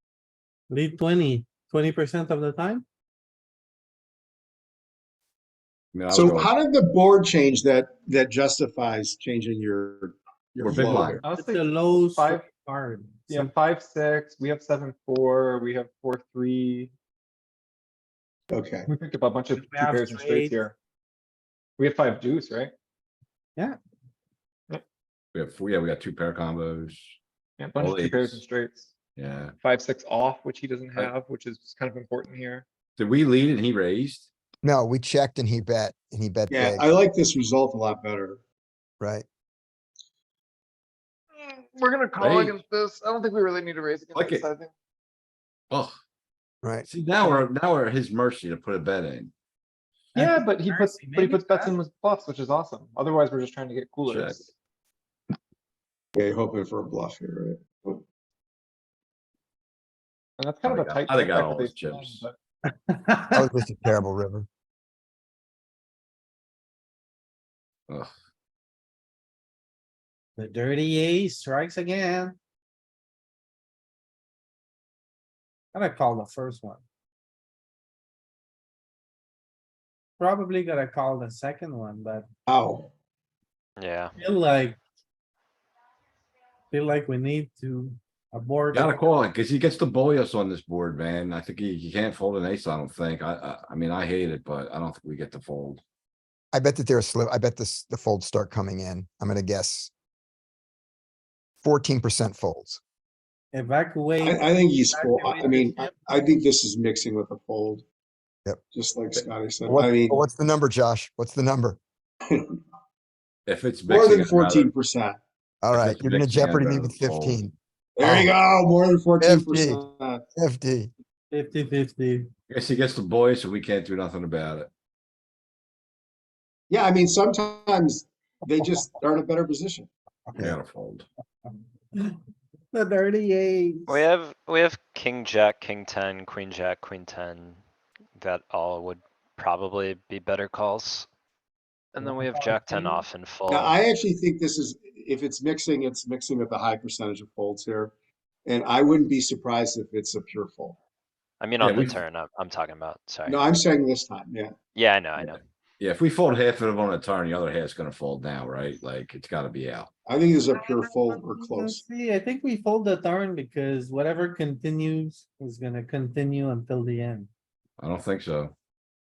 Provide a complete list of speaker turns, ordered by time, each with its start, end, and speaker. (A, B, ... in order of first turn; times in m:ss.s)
0:00.7-0:02.8 A
0:05.9-0:06.5 B
0:06.1-0:11.2 C
0:10.6-0:11.2 B
0:11.2-0:12.4 D
0:11.3-0:13.5 A
0:13.3-0:16.9 D
0:18.5-0:18.9 C
0:18.9-0:20.7 D
0:19.5-0:20.6 A
0:21.8-0:22.7 D
0:25.3-0:27.2 B
0:27.6-0:28.9 D
0:27.8-0:28.4 B
0:29.2-0:29.5 B
0:29.6-0:32.6 D
0:33.0-0:34.3 B
0:34.6-0:36.8 E
0:36.5-0:38.4 C
0:39.0-0:39.2 E
0:41.4-0:44.7 D
0:42.2-0:42.6 B
0:44.1-0:44.5 B
0:45.7-0:46.0 B
0:46.8-0:49.3 B
0:50.1-0:51.8 A
0:50.1-0:54.5 D
0:54.0-0:54.4 B
0:56.1-0:58.0 C
1:00.4-1:02.4 D
1:00.6-1:02.2 B
1:02.9-1:03.3 A
1:03.3-1:04.5 E
1:10.4-1:12.4 A
1:15.7-1:16.8 A
1:20.2-1:22.2 A
1:22.5-1:22.9 C
1:23.8-1:24.1 F
1:24.2-1:24.8 A
1:26.7-1:29.0 A
1:28.7-1:35.8 B
1:36.5-1:39.9 E
1:41.6-1:42.8 E
1:43.5-1:45.9 A
1:44.2-1:47.8 C
1:48.7-1:50.2 C
1:49.6-1:51.8 E
1:52.3-1:52.6 C
1:53.4-1:54.7 B
1:53.8-1:55.2 C
1:55.6-1:58.3 E
1:55.7-1:57.4 B
1:58.0-2:00.2 C
1:59.2-1:59.8 E
2:00.3-2:00.9 E
2:01.3-2:02.3 A
2:02.5-2:04.7 B
2:06.7-2:09.9 C
2:10.4-2:11.0 B
2:12.7-2:14.0 A
2:13.9-2:17.6 F
2:18.2-2:21.1 F
2:21.9-2:23.8 F
2:22.0-2:23.0 A
2:23.5-2:27.9 C
2:28.4-2:30.8 C
2:31.4-2:33.4 F
2:31.6-2:32.0 B
2:33.3-2:34.5 C
2:34.7-2:35.4 F
2:35.2-2:39.9 B
2:40.0-2:41.8 C
2:40.6-2:47.3 A
2:47.8-2:48.5 B